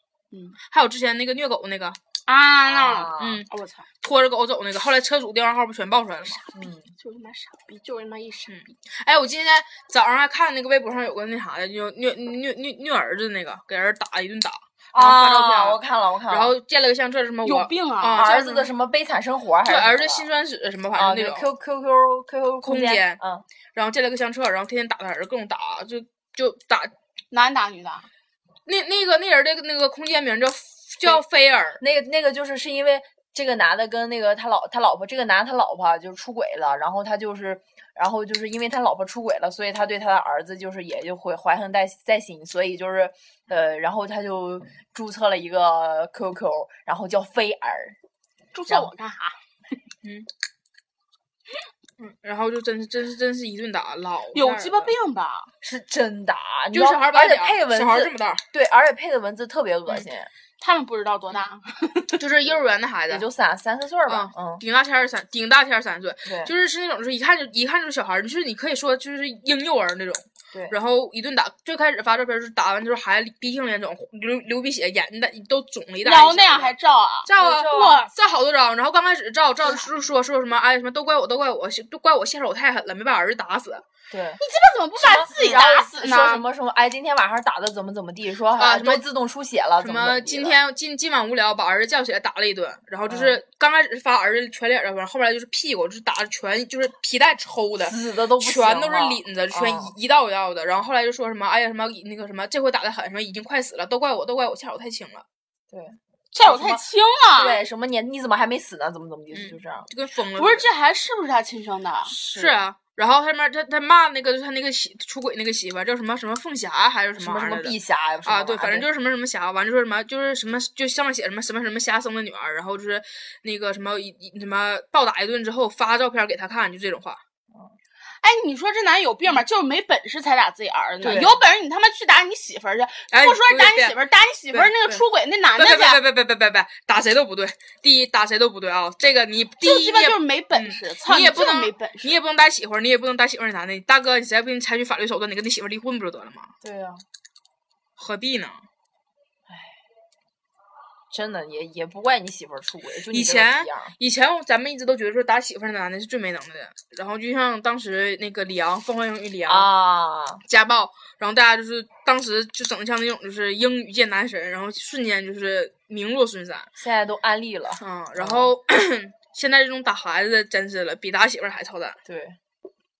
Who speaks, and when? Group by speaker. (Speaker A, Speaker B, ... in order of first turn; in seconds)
Speaker A: 0.3-0.6, 2.2-3.8, 7.0-8.6, 17.4-18.3, 27.3-28.1, 48.5-49.4, 54.3-55.5, 60.6-62.2, 76.0-78.1, 84.4-86.4, 106.3-107.6, 110.3-112.1, 128.2-136.0, 139.6-142.1
Speaker B: 0.7-2.0, 3.2-3.5, 4.0-6.4, 8.5-18.7, 19.6-21.5, 22.6-23.2, 23.7-26.9, 28.6-31.8, 50.0-50.3, 52.0-54.9, 56.7-58.4, 62.2-63.2, 64.1-76.7, 77.2-83.8, 88.5-89.0, 89.8-105.2, 109.3-110.7, 112.1-127.2, 133.1-134.0, 134.5-135.0, 135.6-146.5, 148.0-148.6, 153.1-159.7, 160.5-166.7, 167.8-172.0
Speaker C: 2.6-3.4, 6.5-6.9, 14.9-16.5, 18.1-20.3, 20.9-23.4, 31.8-48.0, 55.6-60.3, 63.1-64.6, 66.2-66.5, 77.4-77.9, 84.1-84.4, 85.0-90.6, 93.1-93.4, 97.8-99.9, 105.7-106.8, 107.3-109.9, 112.2-112.6, 117.2-118.9, 131.0-131.4, 146.6-147.0, 149.5-149.8, 151.1-153.9, 159.5-160.4, 166.8-168.5, 172.0-172.4